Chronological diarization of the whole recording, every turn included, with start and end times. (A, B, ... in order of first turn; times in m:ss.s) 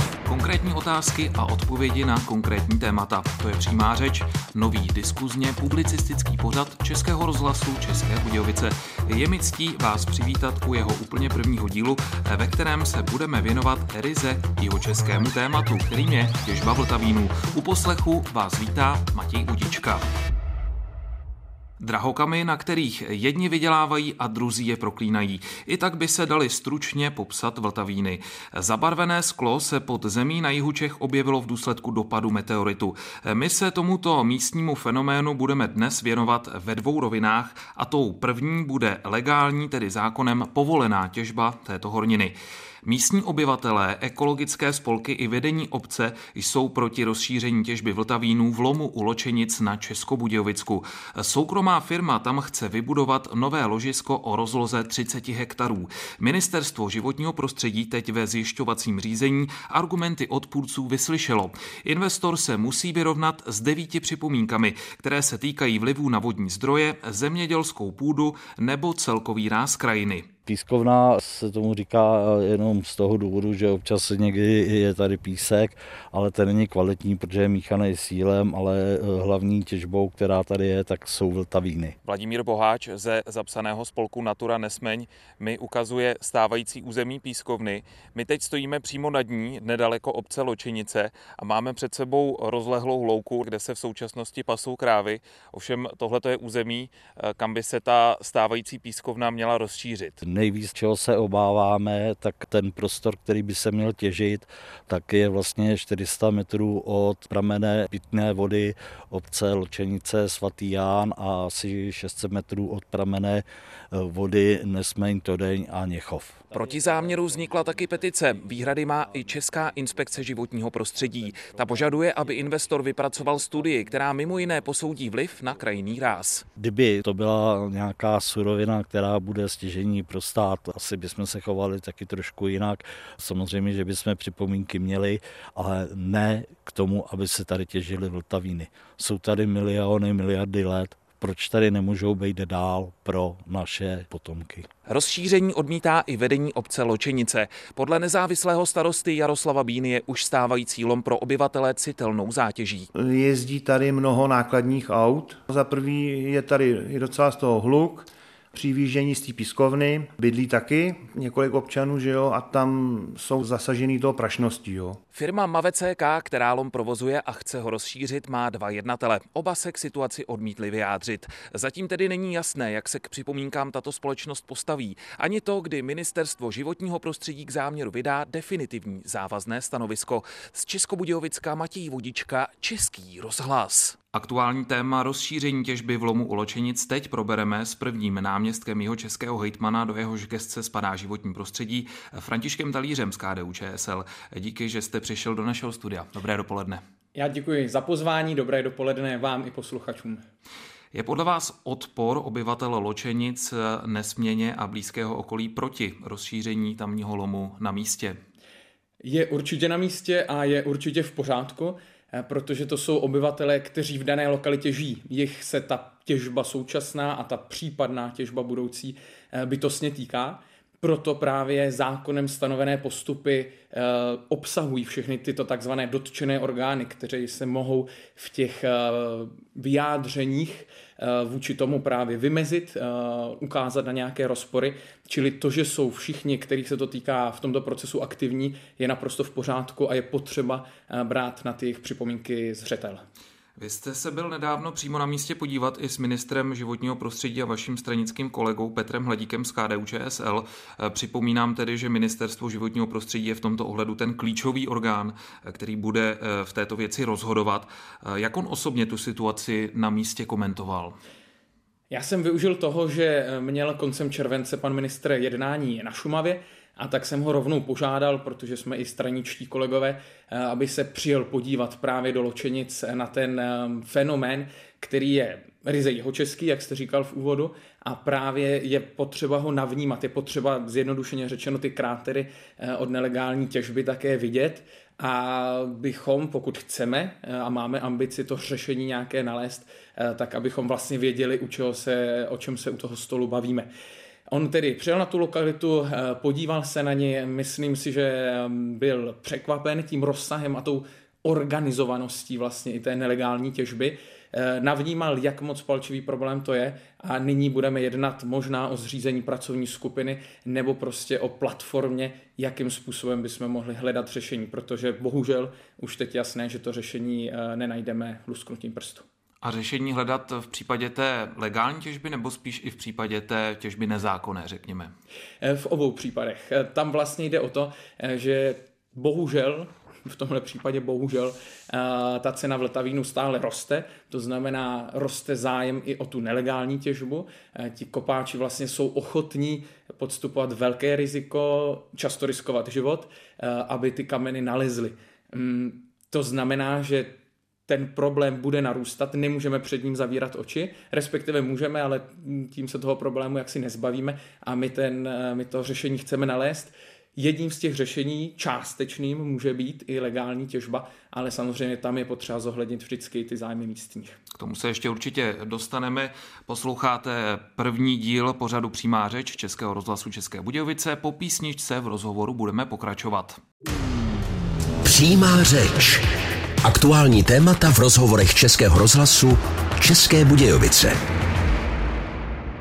0:00.2-0:20.0 A
0:21.8-1:10.3 A
1:10.5-1:22.0 B
1:22.0-1:40.2 A
1:40.2-1:56.5 B
1:56.5-2:06.4 A
2:06.5-2:24.7 B
2:24.9-2:32.9 A
2:32.9-2:45.0 C
2:45.1-3:16.8 A
3:17.1-3:20.2 D
3:20.9-3:28.2 A
3:29.0-4:03.0 D
4:03.6-4:21.0 A
4:21.9-4:53.7 D
4:54.3-5:19.0 D
5:19.4-5:24.9 A
5:25.4-5:47.1 D
5:47.7-6:04.2 D
6:04.4-6:13.4 A
6:14.8-6:16.0 E
6:16.6-6:21.0 E